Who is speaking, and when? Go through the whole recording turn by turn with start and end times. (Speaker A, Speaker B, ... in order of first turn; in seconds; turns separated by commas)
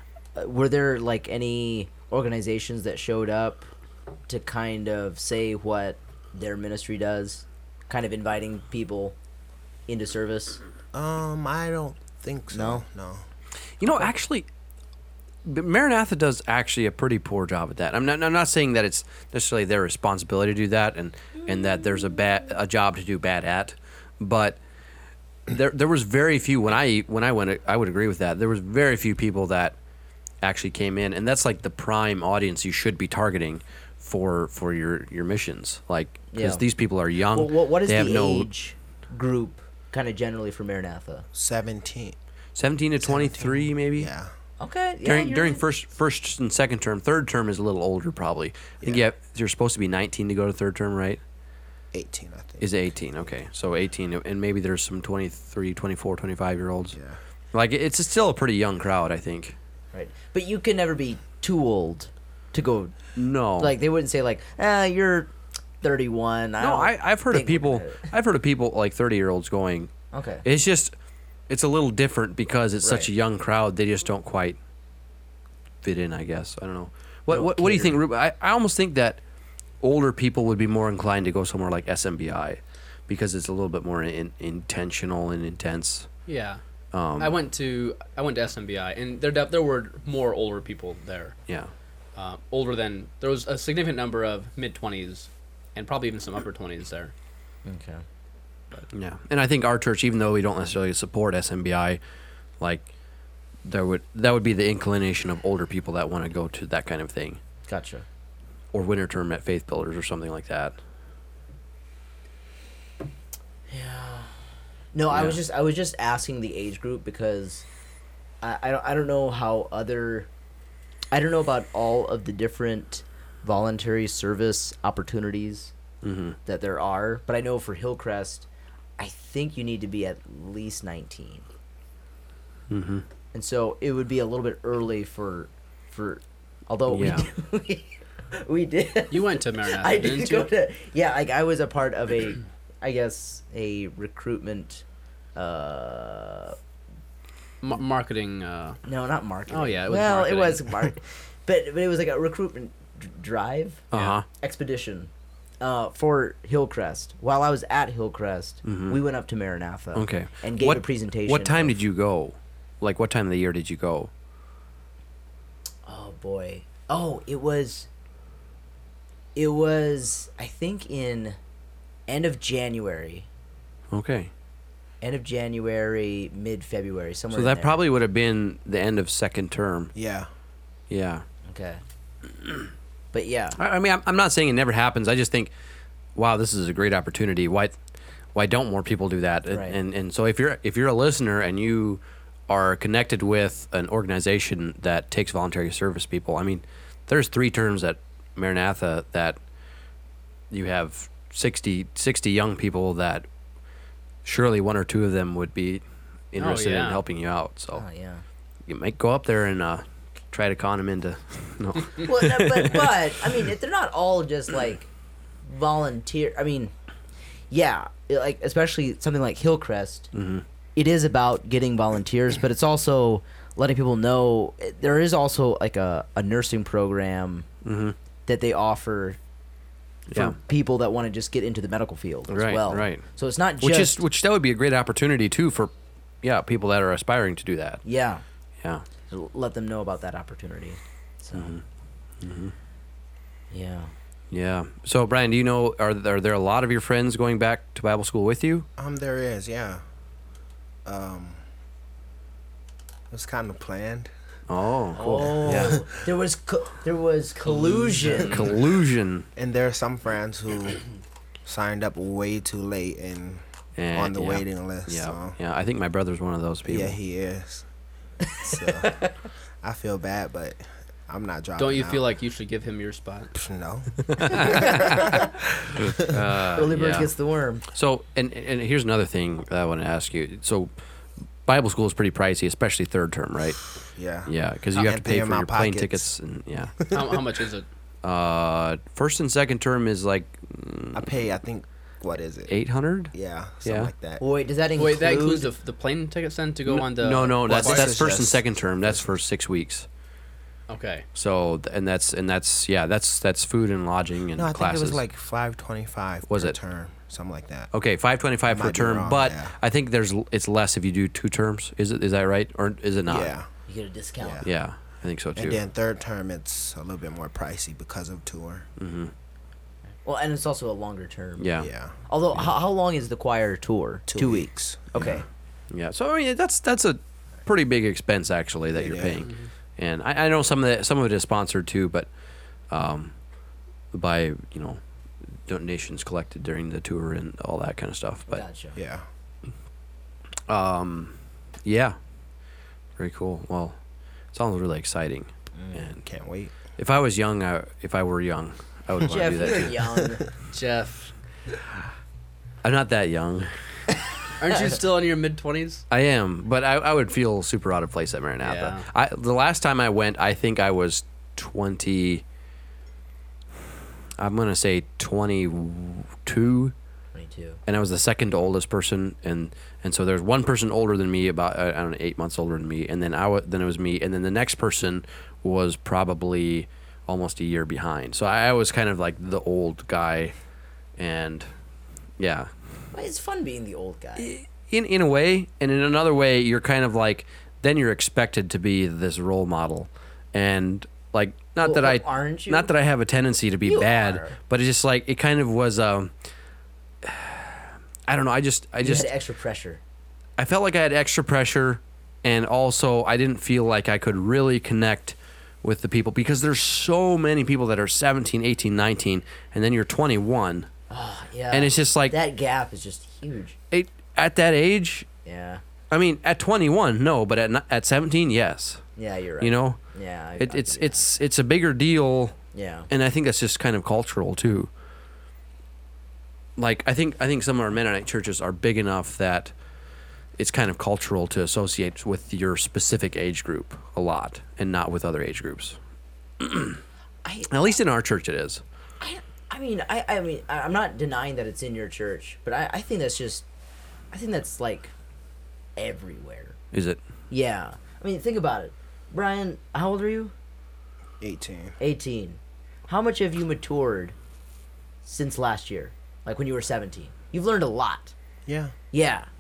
Speaker A: 0.3-3.7, Speaker A: 4.3-9.2, Speaker A: 9.9-10.6, Speaker B: 10.9-13.2, Speaker A: 12.5-12.8, Speaker C: 13.8-14.5, Speaker C: 15.4-24.6, Speaker C: 25.5-29.8, Speaker C: 30.4-38.5, Speaker A: 36.3-36.6, Speaker A: 37.3-41.3, Speaker B: 41.3-42.2, Speaker C: 42.5-44.1, Speaker B: 43.0-44.3, Speaker A: 44.6-45.6, Speaker C: 45.0-51.2, Speaker B: 51.9-52.7, Speaker C: 52.6-57.0, Speaker B: 56.9-57.2, Speaker C: 57.5-59.5, Speaker A: 59.9-63.0, Speaker C: 63.2-63.7, Speaker A: 63.6-68.1, Speaker C: 66.6-69.9, Speaker A: 70.1-70.5, Speaker C: 70.4-70.9, Speaker C: 71.5-74.6, Speaker A: 72.8-73.1, Speaker C: 75.8-79.2, Speaker A: 77.3-78.0, Speaker C: 79.8-86.1, Speaker D: 86.3-86.6, Speaker C: 86.9-87.4, Speaker D: 87.2-91.4, Speaker D: 92.2-97.1, Speaker A: 97.7-98.0, Speaker C: 98.9-102.0, Speaker C: 102.6-102.9, Speaker C: 103.7-107.4, Speaker A: 107.7-108.0, Speaker C: 108.7-110.8, Speaker A: 113.7-114.3, Speaker A: 114.9-117.7, Speaker C: 115.1-115.4, Speaker A: 118.4-120.3, Speaker A: 121.1-125.7, Speaker C: 126.0-126.4, Speaker A: 126.5-128.5, Speaker A: 129.0-131.5, Speaker C: 132.7-133.1, Speaker A: 133.3-144.8, Speaker C: 136.9-137.3, Speaker D: 139.1-140.5, Speaker A: 145.3-146.6, Speaker D: 147.6-148.8, Speaker A: 148.9-161.8, Speaker D: 149.5-150.7, Speaker C: 153.9-154.2, Speaker D: 153.9-154.2, Speaker C: 158.7-159.0, Speaker C: 159.9-164.1, Speaker A: 165.9-167.9, Speaker A: 169.3-171.4, Speaker A: 172.1-173.3, Speaker C: 173.9-174.3, Speaker A: 175.0-177.8, Speaker C: 177.3-179.9, Speaker B: 179.9-180.3, Speaker C: 180.9-181.2, Speaker A: 181.5-181.8, Speaker A: 183.1-183.6, Speaker C: 183.6-185.5, Speaker C: 186.2-187.8, Speaker C: 188.3-199.4, Speaker A: 189.5-189.8, Speaker C: 200.5-203.3, Speaker C: 204.2-207.8, Speaker D: 206.4-207.0, Speaker A: 207.8-208.2, Speaker C: 208.7-213.0, Speaker A: 212.0-214.9, Speaker A: 215.4-216.7, Speaker A: 217.5-220.1, Speaker C: 220.1-220.4, Speaker A: 220.8-227.5, Speaker C: 227.6-228.0, Speaker A: 228.3-229.2, Speaker C: 230.1-230.4, Speaker A: 230.1-234.0, Speaker C: 232.3-233.0, Speaker C: 233.6-235.7, Speaker C: 236.2-237.8, Speaker A: 237.8-238.2, Speaker A: 239.1-241.6, Speaker C: 241.3-241.6, Speaker C: 242.2-242.5, Speaker A: 243.5-243.9, Speaker C: 244.3-248.7, Speaker B: 248.8-249.8, Speaker B: 250.8-251.4, Speaker B: 253.1-254.1, Speaker C: 254.5-255.8, Speaker A: 254.9-258.4, Speaker B: 255.0-255.8, Speaker B: 258.1-258.4, Speaker C: 258.2-259.3, Speaker B: 259.4-260.8, Speaker B: 261.4-265.4, Speaker C: 263.8-267.0, Speaker B: 266.7-267.7, Speaker A: 268.3-269.1, Speaker B: 268.4-269.0, Speaker B: 269.6-272.0, Speaker D: 271.6-273.3, Speaker B: 273.3-276.2, Speaker C: 274.1-275.1, Speaker C: 275.8-277.1, Speaker A: 276.5-277.6, Speaker C: 277.7-280.7, Speaker C: 281.5-286.9, Speaker B: 283.9-286.1, Speaker B: 286.8-287.2, Speaker D: 286.9-287.7, Speaker C: 288.0-291.1, Speaker B: 290.9-292.5, Speaker C: 292.5-293.1, Speaker B: 293.1-294.2, Speaker C: 293.6-293.9, Speaker A: 294.2-295.5, Speaker D: 294.8-298.0, Speaker C: 296.7-299.9, Speaker B: 297.4-299.0, Speaker D: 300.7-301.1, Speaker C: 301.1-305.0, Speaker B: 304.4-307.7, Speaker C: 306.3-306.6, Speaker C: 307.7-313.3, Speaker B: 308.5-309.5, Speaker B: 313.1-313.5, Speaker A: 313.7-314.4, Speaker B: 314.2-314.5, Speaker C: 314.4-315.6, Speaker B: 315.4-318.7, Speaker C: 318.8-319.1, Speaker A: 320.1-321.5, Speaker C: 321.4-321.7, Speaker B: 321.6-321.9, Speaker A: 322.1-325.2, Speaker B: 324.1-325.2, Speaker C: 325.7-332.1, Speaker B: 328.8-329.3, Speaker D: 329.2-329.5, Speaker C: 332.7-333.1, Speaker C: 333.9-334.8, Speaker C: 335.5-338.4, Speaker A: 338.3-338.8, Speaker B: 338.8-339.1, Speaker C: 340.5-342.0, Speaker C: 343.0-343.8, Speaker C: 344.3-346.0, Speaker A: 345.6-345.9, Speaker B: 346.0-346.6, Speaker C: 346.8-349.8, Speaker A: 349.0-350.2, Speaker D: 350.5-351.1, Speaker C: 352.6-353.5, Speaker D: 354.4-355.8, Speaker C: 355.9-362.2, Speaker D: 358.4-358.9, Speaker C: 364.2-366.7, Speaker A: 367.1-367.6, Speaker C: 367.7-380.3, Speaker C: 381.0-381.5, Speaker C: 382.2-382.5, Speaker A: 382.9-384.3, Speaker C: 384.2-396.1, Speaker A: 391.6-392.7, Speaker A: 393.6-394.4, Speaker C: 397.0-399.1, Speaker A: 398.8-399.8, Speaker C: 400.4-410.7, Speaker A: 410.9-413.6, Speaker C: 411.5-412.1, Speaker C: 413.7-415.1, Speaker A: 415.2-415.6, Speaker C: 415.9-418.8, Speaker A: 419.0-421.1, Speaker C: 419.4-419.8, Speaker C: 420.4-422.4, Speaker A: 422.5-422.9, Speaker C: 422.9-424.7, Speaker C: 426.6-429.5, Speaker C: 430.4-435.8, Speaker C: 436.4-436.8, Speaker A: 437.2-437.8, Speaker C: 437.5-438.6, Speaker A: 439.0-443.4, Speaker A: 444.1-444.9, Speaker A: 445.8-446.6, Speaker C: 446.7-447.0, Speaker A: 447.3-450.3, Speaker B: 451.2-451.8, Speaker A: 451.8-454.1, Speaker A: 455.0-458.1, Speaker B: 458.5-458.7, Speaker A: 458.9-459.3